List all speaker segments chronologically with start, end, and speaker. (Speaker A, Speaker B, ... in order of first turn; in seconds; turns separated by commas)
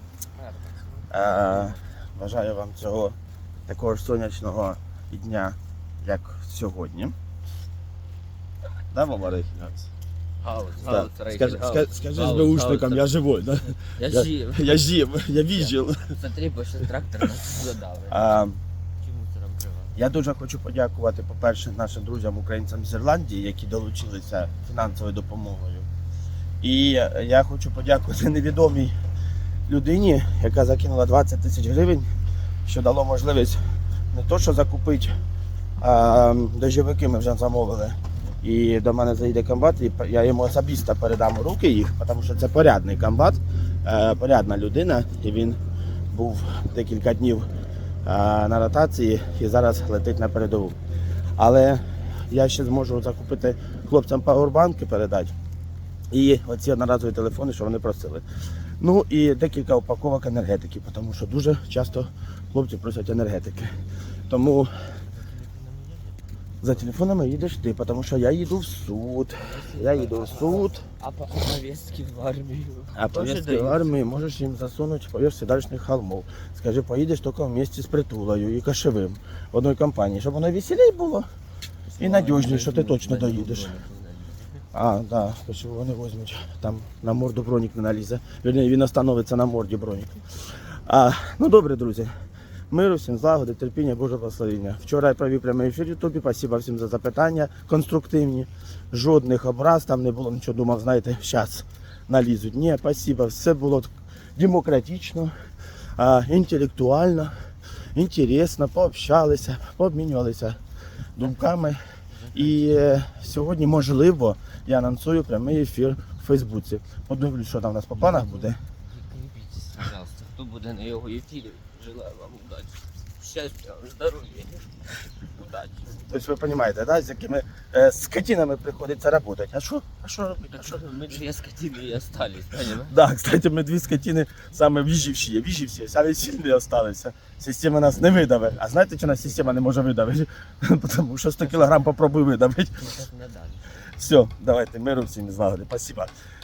Speaker A: 0.3-1.8, Speaker B: 1.1-3.1, Speaker B: 3.7-7.1, Speaker B: 8.9-9.9, Speaker A: 10.4-13.1, Speaker B: 10.8-16.1, Speaker A: 13.9-18.2, Speaker B: 18.1-18.6, Speaker A: 19.0-20.0, Speaker B: 19.9-25.9, Speaker B: 26.6-28.9, Speaker B: 29.7-32.1, Speaker B: 32.6-35.1, Speaker B: 35.8-45.6, Speaker B: 46.1-47.5, Speaker B: 48.0-50.8, Speaker B: 51.4-55.3, Speaker B: 56.1-58.2, Speaker B: 58.8-63.7, Speaker B: 64.3-64.7, Speaker A: 65.1-66.2, Speaker B: 66.6-70.8, Speaker A: 69.4-74.0, Speaker B: 72.9-81.3, Speaker A: 81.9-84.6, Speaker B: 82.0-83.7, Speaker B: 84.7-92.1, Speaker B: 92.7-105.3, Speaker B: 106.0-110.6, Speaker B: 111.2-118.6, Speaker A: 112.1-112.6, Speaker A: 117.9-125.9, Speaker B: 125.9-130.8, Speaker A: 130.5-132.9, Speaker B: 132.6-142.9, Speaker A: 139.3-139.6, Speaker A: 142.7-143.8, Speaker B: 143.9-146.1